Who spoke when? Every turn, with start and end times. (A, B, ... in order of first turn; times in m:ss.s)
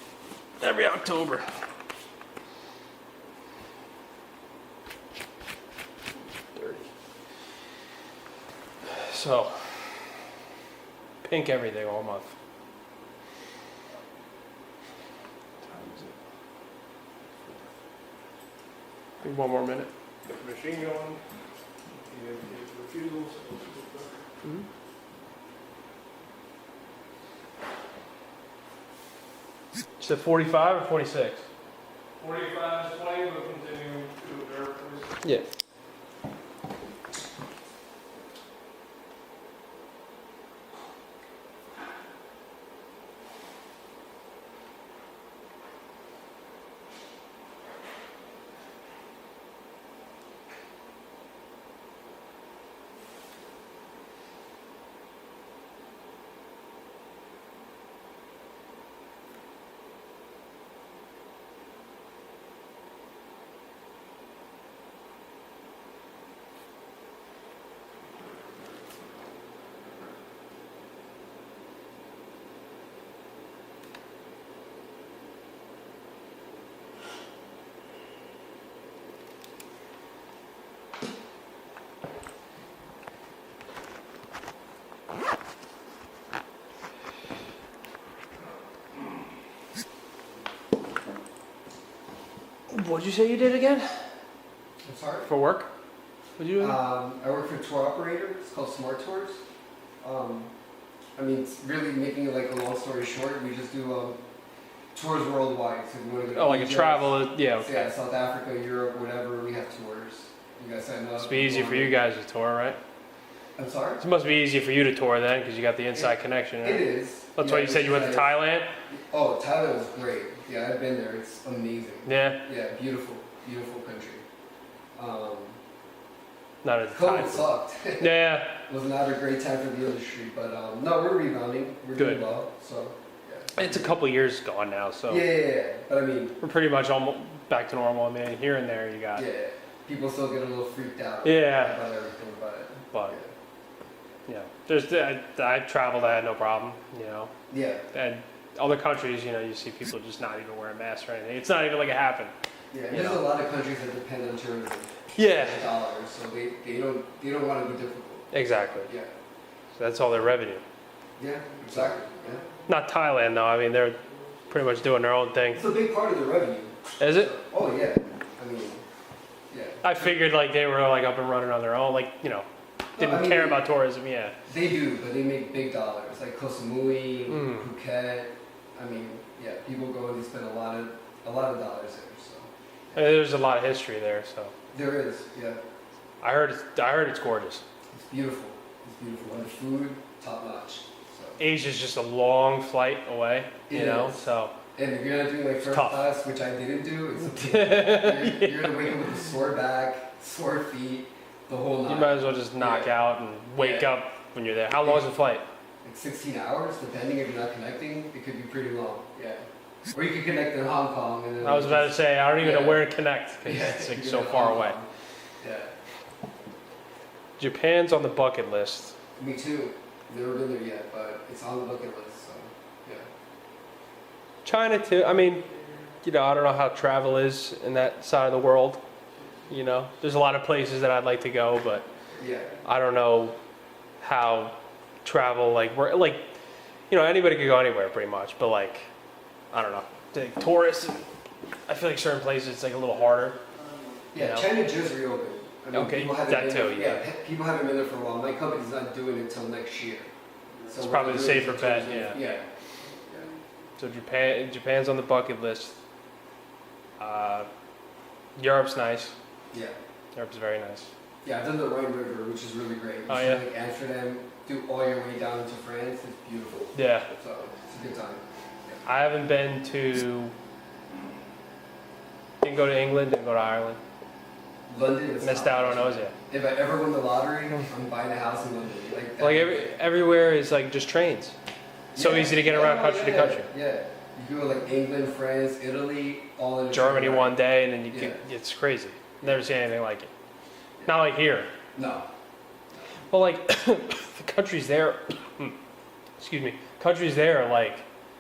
0:00.6-0:01.5 A
0:06.5-0:06.9 A
0:08.9-0:09.7 A
0:11.2-0:12.3 A
0:15.6-0:16.1 A
0:19.2-0:19.9 A
0:20.3-0:21.2 B
0:22.1-0:24.3 B
0:30.0-0:31.4 A
0:32.2-0:35.1 B
0:35.2-0:35.5 A
1:32.7-1:33.9 A
1:34.8-1:35.3 C
1:35.3-1:35.7 A
1:36.4-1:36.8 A
1:36.6-1:39.4 C
1:40.0-1:40.5 C
1:41.2-1:44.2 C
1:44.9-1:52.0 C
1:46.3-1:47.9 A
1:51.2-1:52.8 A
1:53.6-1:54.0 C
1:54.0-1:58.7 A
1:56.0-1:58.4 C
1:58.9-2:04.2 C
2:02.1-2:02.4 A
2:05.0-2:05.6 C
2:06.6-2:08.6 A
2:06.9-2:13.9 C
2:12.0-2:12.3 A
2:13.6-2:15.3 A
2:15.1-2:16.4 C
2:16.4-2:19.2 A
2:19.2-2:23.3 C
2:21.2-2:21.8 A
2:24.3-2:27.3 A
2:27.5-2:27.8 C
2:27.9-2:32.3 A
2:32.7-2:39.1 C
2:32.9-2:33.2 A
2:35.2-2:35.7 A
2:38.3-2:38.9 A
2:39.8-2:40.6 A
2:41.2-2:42.4 C
2:42.7-2:44.0 A
2:44.5-2:45.7 A
2:45.5-2:48.8 C
2:47.0-2:47.3 A
2:49.5-2:50.2 C
2:49.8-2:54.4 A
2:53.0-2:53.7 C
2:54.5-3:03.0 C
2:57.3-2:57.7 A
3:02.9-3:04.5 A
3:04.7-3:05.6 C
3:06.2-3:07.6 A
3:07.9-3:11.4 C
3:11.4-3:14.5 A
3:13.7-3:23.0 C
3:15.7-3:16.0 A
3:17.3-3:19.0 A
3:21.9-3:25.4 A
3:23.6-3:23.9 C
3:25.8-3:32.9 C
3:31.4-3:34.8 A
3:33.4-3:34.9 C
3:35.4-3:35.7 C
3:37.4-3:38.9 A
3:39.2-3:43.1 C
3:44.4-3:45.5 A
3:45.5-3:45.8 B
3:46.0-3:48.8 A
3:49.1-3:49.5 B
3:49.5-3:51.9 A
3:51.9-3:52.3 B
3:52.2-3:52.5 C
3:52.6-3:53.4 A
3:54.0-3:56.3 A
3:56.9-3:58.9 A
3:59.5-4:01.0 A
4:01.7-4:03.4 A
4:03.4-4:04.1 B
4:04.1-4:10.1 C
4:04.2-4:04.5 A
4:05.7-4:07.0 A
4:10.7-4:12.5 C
4:10.8-4:12.2 A
4:12.8-4:13.4 B
4:13.8-4:15.8 A
4:17.0-4:17.5 A
4:18.4-4:19.1 A
4:19.5-4:19.8 C
4:20.2-4:20.9 A
4:21.2-4:28.8 C
4:23.1-4:23.4 A
4:26.8-4:27.1 A
4:28.9-4:30.4 A
4:32.4-4:33.8 A
4:34.7-4:39.7 C
4:35.2-4:36.1 A
4:39.2-4:41.4 A
4:41.9-4:47.4 C
4:42.0-4:43.5 A
4:46.7-4:50.1 A
4:47.9-4:48.2 C
4:50.8-4:51.5 A
4:51.8-4:52.1 C
4:53.1-4:55.6 A
4:56.2-4:57.8 A